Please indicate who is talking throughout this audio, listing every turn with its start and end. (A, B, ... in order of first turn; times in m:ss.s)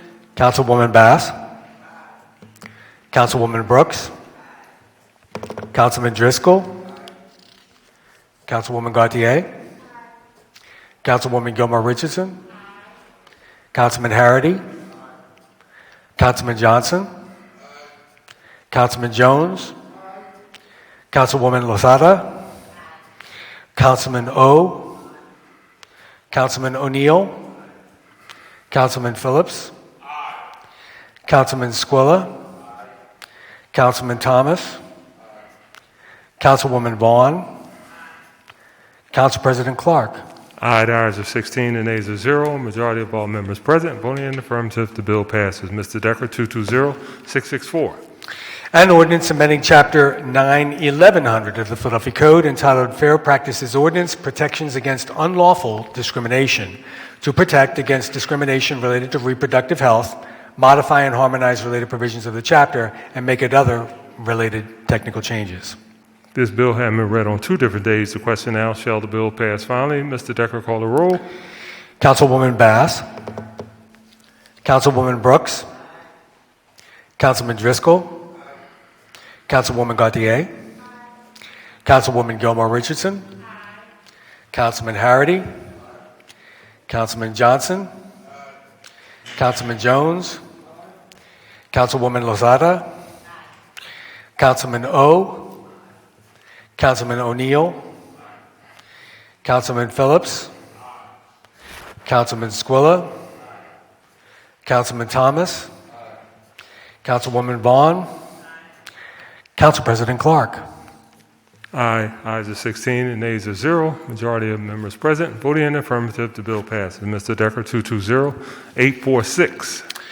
0:00.4-0:01.3 A
0:03.1-0:04.1 A
0:05.7-0:06.8 A
0:08.5-0:09.5 A
0:11.0-0:12.4 A
0:13.7-0:14.6 A
0:16.2-0:17.1 A
0:18.7-0:19.7 A
0:21.1-0:22.4 A
0:23.7-0:25.0 A
0:26.3-0:27.4 A
0:28.7-0:29.7 A
0:31.2-0:32.3 A
0:33.7-0:34.8 A
0:36.4-0:37.5 A
0:39.1-0:40.2 A
0:40.6-0:48.0 B
0:48.7-1:05.8 A
1:06.3-1:11.2 B
1:12.0-1:13.0 A
1:14.6-1:15.7 A
1:17.2-1:18.2 A
1:19.5-1:20.5 A
1:21.8-1:23.2 A
1:24.5-1:25.5 A
1:26.9-1:27.9 A
1:29.4-1:30.4 A
1:31.7-1:32.9 A
1:34.4-1:35.5 A
1:36.8-1:37.8 A
1:39.4-1:40.5 A
1:42.0-1:43.1 A
1:44.6-1:45.7 A
1:47.0-1:48.1 A
1:49.6-1:50.6 A
1:51.7-1:59.8 B